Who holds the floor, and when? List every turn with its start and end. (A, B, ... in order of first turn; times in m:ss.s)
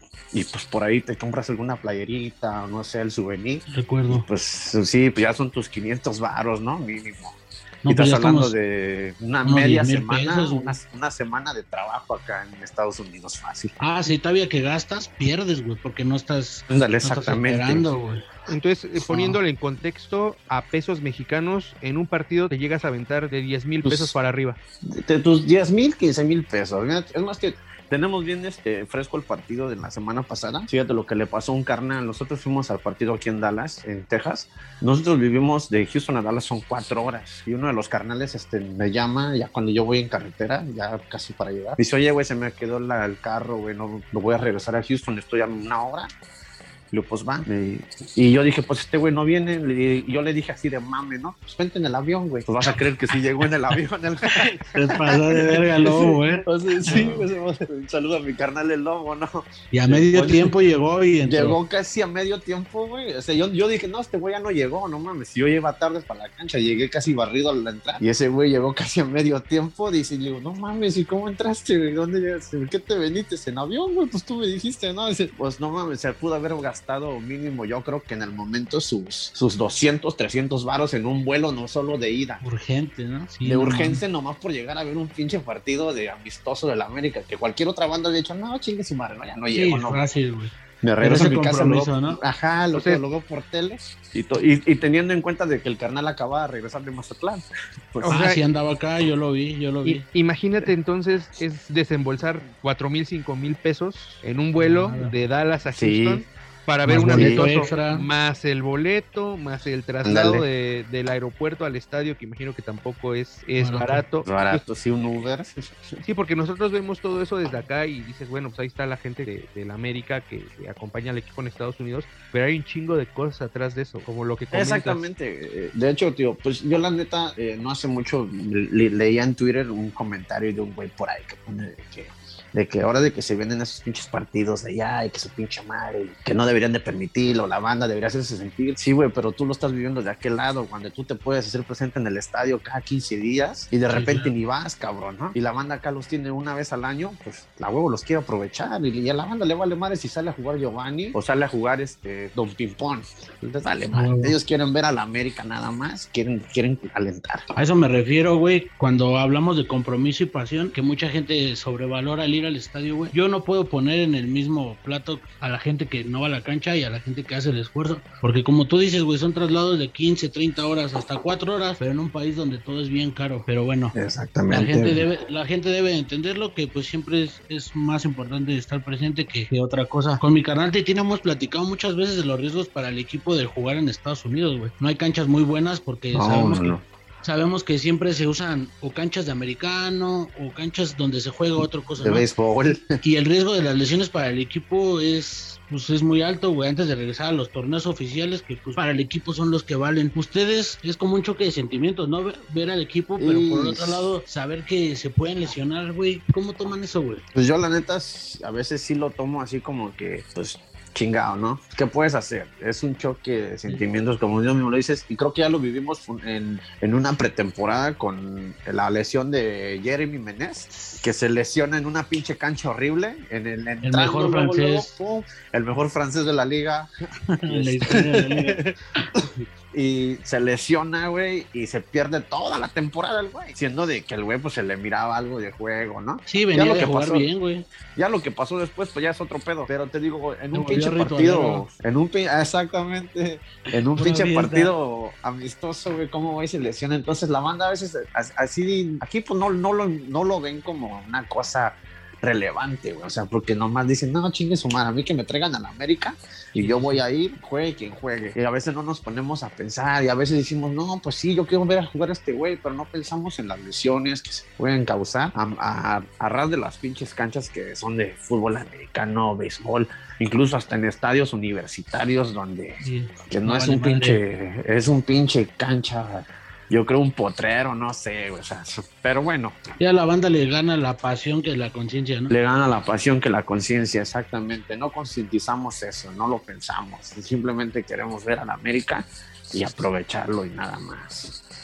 0:00.3-0:13.7 A
0:03.7-0:04.2 B
0:07.8-0:08.5 B
0:09.4-0:10.7 B
0:13.8-0:18.2 B
0:16.7-0:17.9 A
0:18.5-0:24.6 C
0:19.1-0:19.4 B
0:23.8-0:24.1 A
0:24.9-0:46.1 A
0:46.9-1:00.6 A
0:54.7-0:57.2 B
0:59.7-1:01.6 B
1:01.2-1:22.4 A
1:22.4-1:24.0 B
1:23.4-1:30.0 A
1:29.5-1:32.2 B
1:30.8-1:38.2 A
1:32.7-1:33.0 C
1:38.0-1:38.4 C
1:38.1-1:40.0 B
1:39.8-1:54.6 C
1:44.6-1:45.1 B
1:45.7-1:46.2 A
1:46.9-1:48.1 B
1:47.0-1:47.5 A
1:50.0-1:50.5 A
1:53.6-1:54.0 B
1:54.2-1:56.0 A
1:56.0-2:05.0 C
2:04.5-2:37.5 A
2:23.9-2:24.3 B
2:33.9-2:34.3 B
2:37.5-2:54.0 B
2:53.9-2:55.0 A
2:54.5-3:12.3 B
3:06.1-3:06.8 A
3:12.0-3:13.0 A
3:13.0-3:27.2 B
3:23.2-3:24.1 A
3:27.3-3:46.9 A
3:40.8-3:41.0 B
3:43.8-3:44.9 B
3:47.3-3:49.2 B
3:47.5-3:57.3 A
3:56.3-3:57.6 B
3:58.0-4:39.6 A
4:00.5-4:01.7 B
4:04.0-4:04.7 B
4:16.6-4:17.0 B
4:32.8-4:34.2 B
4:39.8-4:42.3 B
4:42.3-4:51.4 A